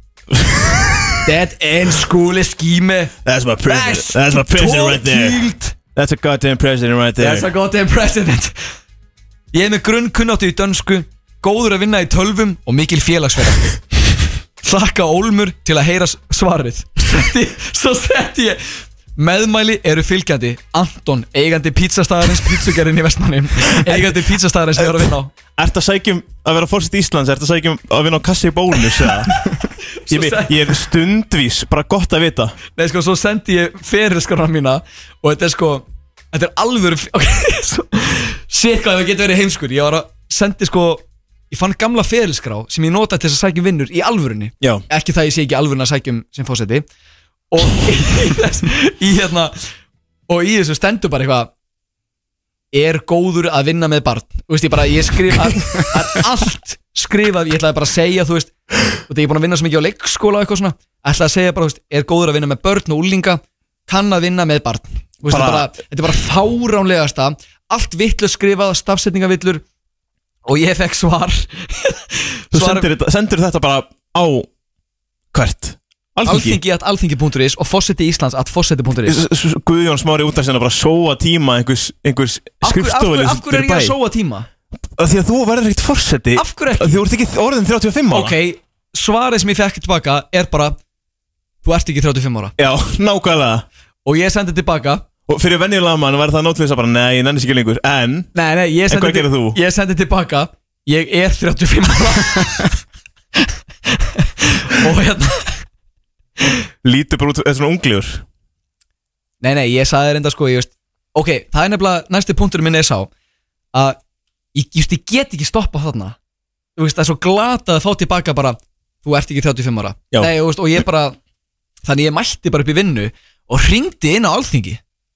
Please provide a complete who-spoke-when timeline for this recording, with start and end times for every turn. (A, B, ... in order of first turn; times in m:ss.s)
0:00.4-0:01.1 A
0:01.2-0:03.1 B
0:03.2-0:07.5 A
0:03.6-0:05.8 B
0:07.2-0:08.7 B
0:09.5-0:13.8 B
0:14.6-0:25.3 B
0:23.8-0:24.1 A
0:24.8-0:29.5 A
0:30.1-0:30.8 B
0:30.1-0:32.6 A
0:32.8-0:46.9 B
0:47.5-0:49.7 B
0:50.3-0:51.5 B
0:52.7-1:09.6 B
1:05.3-1:05.8 A
1:10.5-1:12.9 B
1:12.5-1:14.5 A
1:15.3-1:16.6 A
1:16.3-1:19.2 B
1:19.1-1:24.0 A
1:22.6-1:24.5 B
1:25.0-1:28.4 A
1:26.4-1:27.0 B
1:28.1-1:30.8 B
1:31.6-1:32.5 B
1:32.6-1:33.6 A
1:34.0-1:35.0 B
1:35.3-1:38.3 A
1:38.3-1:42.7 B
1:38.9-1:39.6 A
1:43.9-1:45.7 B
1:46.8-1:48.2 A
1:49.4-1:53.1 B
1:54.5-1:56.2 B
1:56.8-2:01.2 B
2:01.8-2:04.8 B